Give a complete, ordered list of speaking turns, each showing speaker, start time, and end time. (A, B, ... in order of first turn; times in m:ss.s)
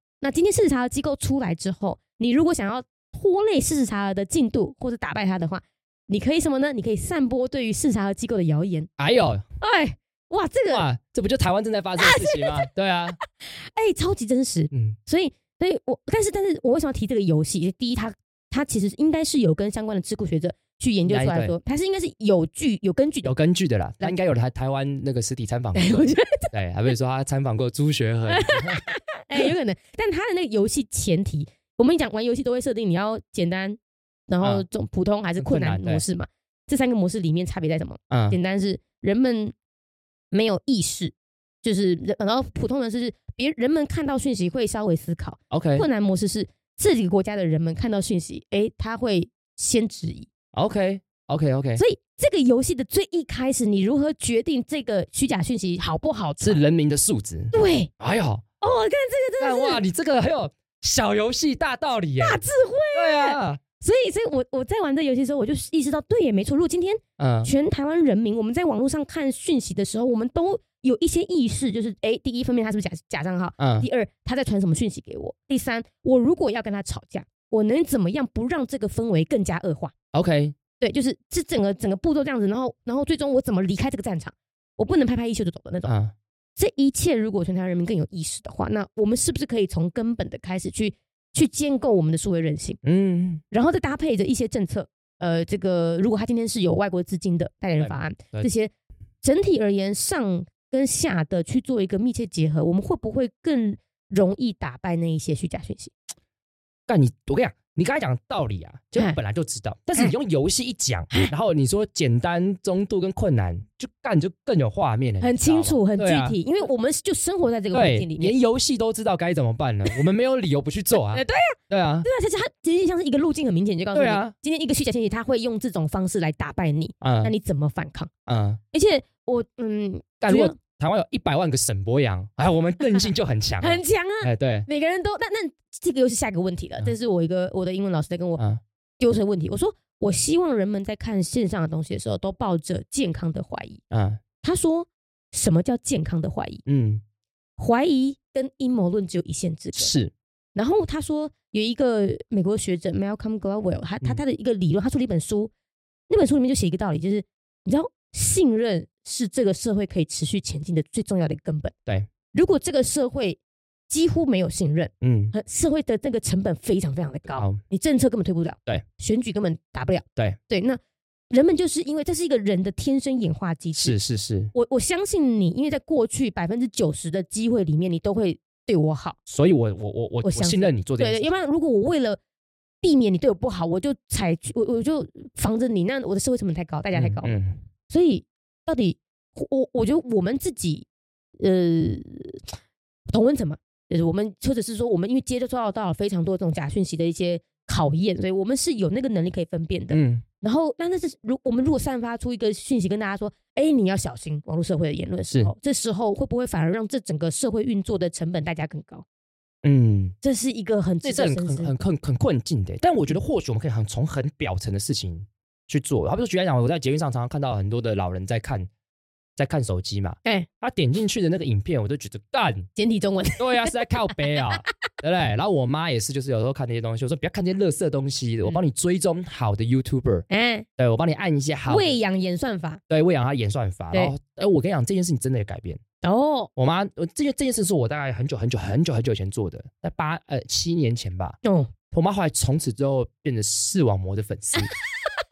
0:00.2-0:08.9 A
0:09.0-0:09.4 B
0:09.6-0:10.8 A
0:10.7-0:13.2 B
0:12.0-0:12.7 A
0:13.4-0:23.4 A
0:14.7-0:15.0 B
0:21.1-0:21.6 B
0:23.2-0:28.8 B
0:25.8-0:26.5 A
0:28.3-0:33.8 A
0:34.3-0:39.5 A
0:35.4-0:36.0 B
0:38.1-0:38.4 B
0:40.3-0:50.3 A
0:45.5-0:45.9 B
0:50.5-0:51.8 B
0:51.8-0:56.6 A
0:56.4-0:58.4 B
0:57.5-0:57.9 A
0:58.6-0:59.8 A
0:59.4-1:02.4 B
1:02.2-1:19.9 A
1:02.9-1:03.6 B
1:07.2-1:07.5 B
1:13.6-1:13.9 B
1:20.1-1:20.6 B
1:20.8-1:25.9 A
1:25.8-1:26.1 B
1:26.6-1:32.8 A
1:32.8-1:33.4 B
1:33.5-1:38.7 A
1:37.8-1:38.5 B
1:39.2-1:45.9 A
1:46.9-1:56.4 B
1:55.2-1:58.3 A
1:57.7-2:02.1 B
2:01.1-2:08.1 A
2:03.9-2:04.3 B
2:07.0-2:07.3 B
2:08.3-2:08.6 B
2:08.7-2:10.6 A
2:10.2-2:14.7 B
2:13.6-2:18.4 A
2:19.0-2:23.8 A
2:23.9-2:24.2 B
2:24.4-2:26.6 A
2:26.7-2:27.0 B
2:27.6-2:29.9 A
2:29.8-2:30.1 B
2:30.6-2:35.5 A
2:36.1-2:41.7 A
2:42.3-2:54.0 A
2:45.0-2:45.4 B
2:53.8-2:54.5 B
2:54.5-2:59.2 A
2:59.3-3:01.3 B
3:00.2-3:02.2 A
3:02.8-3:07.4 A
3:06.9-3:07.6 B
3:07.9-3:10.9 A
3:11.4-3:12.5 A
3:13.1-3:29.0 A
3:19.9-3:20.2 B
3:29.6-3:30.2 B
3:30.2-3:31.7 A
3:31.0-3:38.7 B
3:39.4-3:42.7 B
3:42.8-3:44.6 A
3:43.4-3:50.2 B
3:50.3-3:50.7 A
3:50.8-3:52.0 B
3:51.7-3:52.8 A
3:52.9-3:55.8 B
3:56.0-3:56.5 A
3:56.6-4:01.4 B
4:01.4-4:01.7 A
4:01.9-4:04.7 B